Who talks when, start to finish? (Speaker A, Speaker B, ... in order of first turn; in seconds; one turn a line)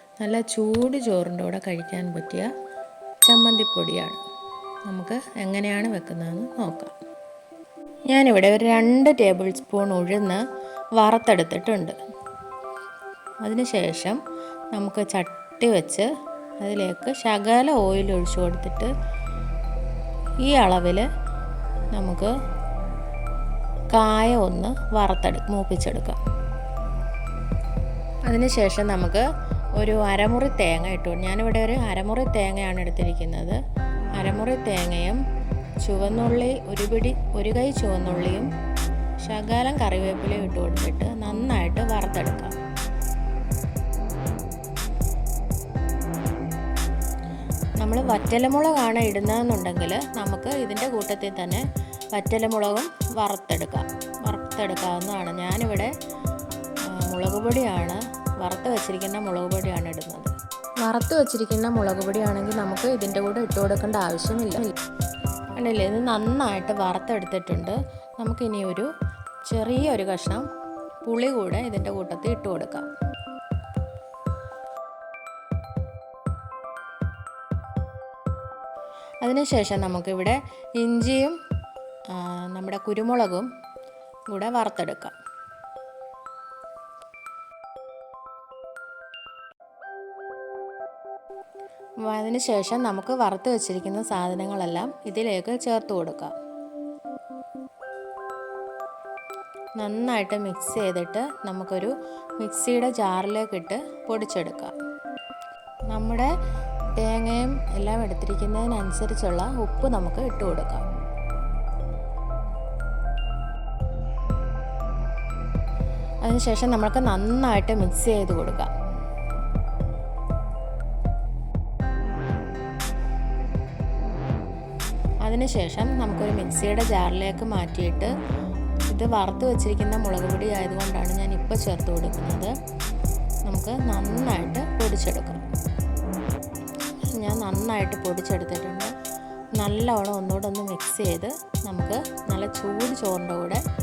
Speaker A: 0.2-2.5
Speaker A: 3.2-4.2
Speaker A: 4.9-6.9
Speaker A: 8.1-10.4
Speaker A: 11.0-11.9
Speaker A: 13.4-14.2
Speaker A: 14.7-16.1
Speaker A: 16.6-18.9
Speaker A: 20.4-21.1
Speaker A: 21.9-22.3
Speaker A: 23.9-26.2
Speaker A: 28.2-29.3
Speaker A: 29.8-33.6
Speaker A: 34.1-35.2
Speaker A: 35.8-38.5
Speaker A: 39.2-42.6
Speaker A: 47.8-55.9
Speaker A: 56.9-64.7
Speaker A: 65.6-68.9
Speaker A: 69.5-70.5
Speaker A: 71.0-72.9
Speaker A: 79.2-81.4
Speaker A: 82.1-83.5
Speaker A: 84.3-85.1
Speaker A: 92.0-96.3
Speaker A: 99.8-104.8
Speaker A: 105.9-106.3
Speaker A: 107.0-110.8
Speaker A: 116.2-118.7
Speaker A: 125.2-128.1
Speaker A: 128.9-132.5
Speaker A: 133.4-135.4
Speaker A: 137.1-138.9
Speaker A: 139.6-143.6